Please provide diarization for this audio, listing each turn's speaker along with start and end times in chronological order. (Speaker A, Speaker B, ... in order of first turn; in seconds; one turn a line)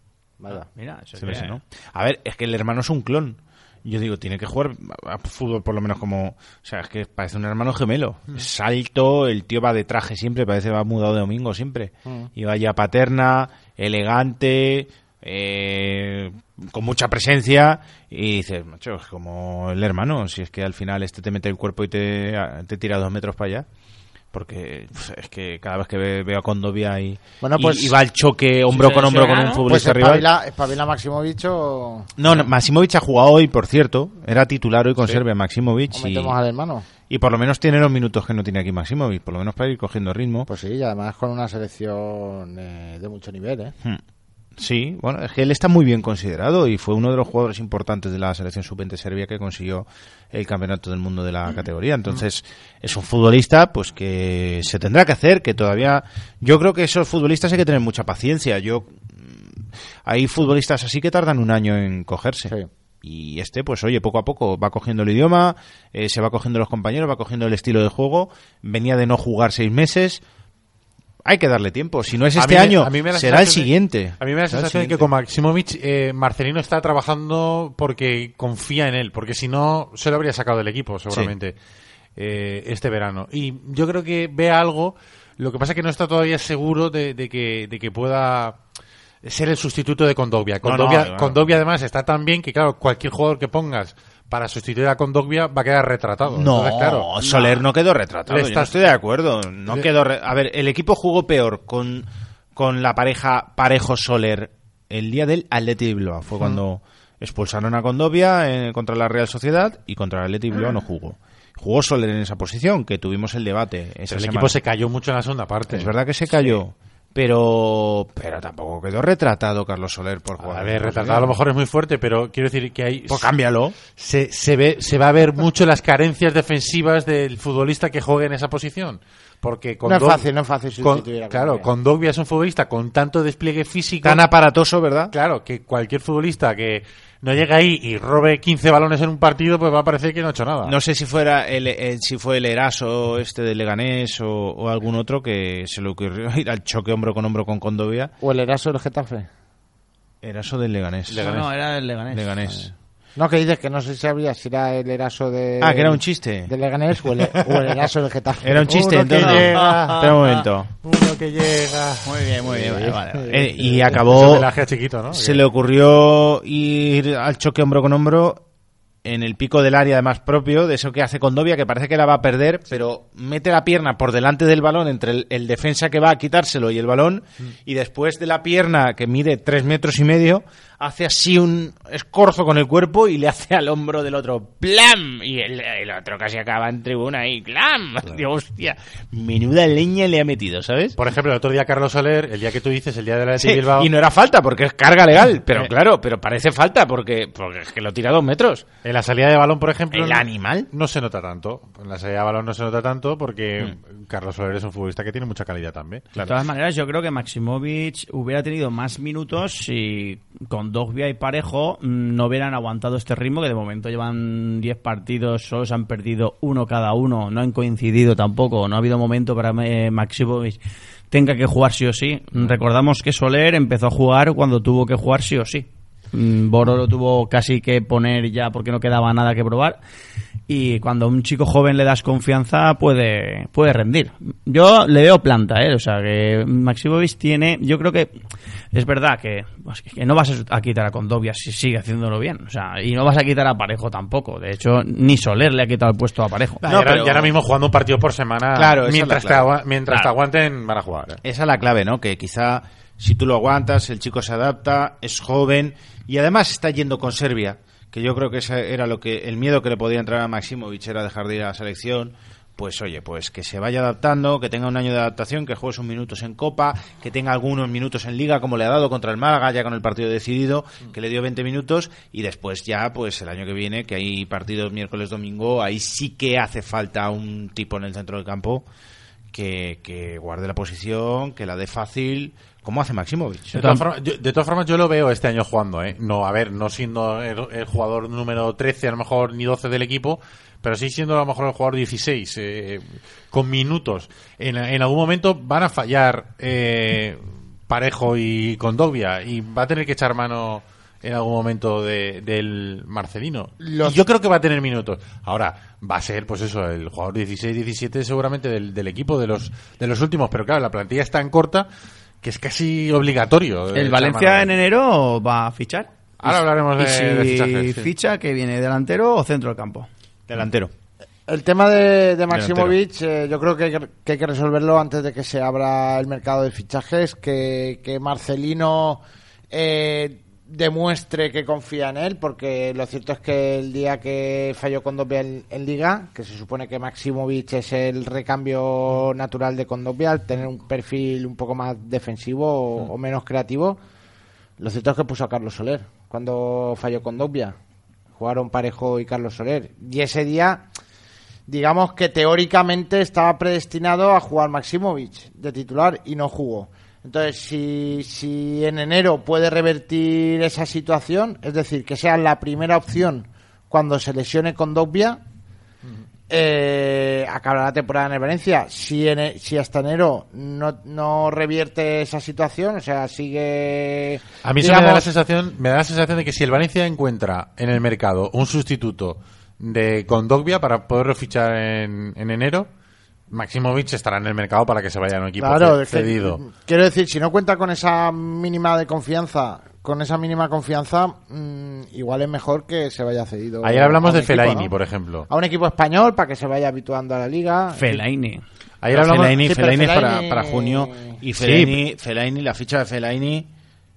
Speaker A: 0.4-0.7
Speaker B: 0.5-1.6
Speaker C: 1.2-23.6
Speaker A: 12.0-12.3
Speaker C: 24.3-30.3
Speaker A: 27.4-28.0
Speaker B: 28.7-29.6
Speaker A: 29.6-32.1
Speaker C: 32.2-36.3
Speaker A: 35.9-36.9
Speaker C: 37.1-40.5
Speaker A: 40.5-43.7
Speaker C: 44.6-70.2
Speaker C: 71.2-75.1
Speaker D: 72.3-81.5
Speaker D: 82.2-88.6
Speaker D: 89.2-97.1
Speaker C: 90.6-91.4
Speaker C: 96.3-114.6
Speaker B: 97.2-97.6
Speaker D: 98.3-98.8
Speaker D: 114.1-116.6
Speaker C: 115.7-121.4
Speaker D: 120.4-123.3
Speaker C: 123.1-123.8
Speaker D: 123.9-130.3
Speaker A: 129.8-131.7
Speaker D: 130.8-134.2
Speaker C: 134.0-135.1
Speaker D: 135.1-140.8
Speaker C: 140.6-148.1
Speaker A: 148.2-149.3
Speaker C: 150.2-151.4
Speaker D: 151.1-151.4
Speaker B: 151.1-152.3
Speaker C: 152.1-152.7
Speaker A: 153.2-159.2
Speaker C: 155.6-156.5
Speaker C: 158.4-160.7
Speaker D: 158.7-160.2
Speaker B: 159.2-160.4
Speaker D: 160.8-162.1
Speaker B: 162.0-163.5
Speaker C: 163.3-164.5
Speaker D: 163.7-165.4
Speaker C: 165.1-168.4
Speaker C: 169.0-190.9
Speaker D: 191.0-193.9
Speaker C: 193.4-198.6
Speaker D: 198.8-206.0
Speaker C: 199.9-200.7
Speaker B: 206.2-220.6
Speaker B: 221.1-229.8
Speaker B: 230.5-238.1
Speaker B: 238.7-246.6
Speaker C: 246.6-247.3
Speaker D: 246.6-251.2
Speaker C: 248.5-249.5
Speaker C: 251.2-278.6
Speaker C: 279.3-283.7
Speaker D: 283.5-311.7
Speaker B: 283.6-283.8
Speaker A: 303.6-304.0
Speaker D: 312.2-314.5
Speaker B: 313.7-319.9
Speaker D: 316.2-317.9
Speaker C: 320.3-320.7
Speaker A: 321.3-343.8
Speaker C: 322.3-322.7
Speaker A: 344.6-347.6
Speaker A: 348.1-350.6
Speaker A: 351.5-365.2
Speaker A: 366.3-375.1
Speaker D: 374.4-382.7
Speaker D: 383.3-386.4
Speaker A: 385.4-394.7
Speaker D: 393.6-395.3
Speaker A: 395.3-398.0
Speaker B: 397.7-398.4
Speaker D: 398.8-399.6
Speaker C: 398.9-403.5
Speaker A: 399.2-401.2
Speaker D: 401.4-401.8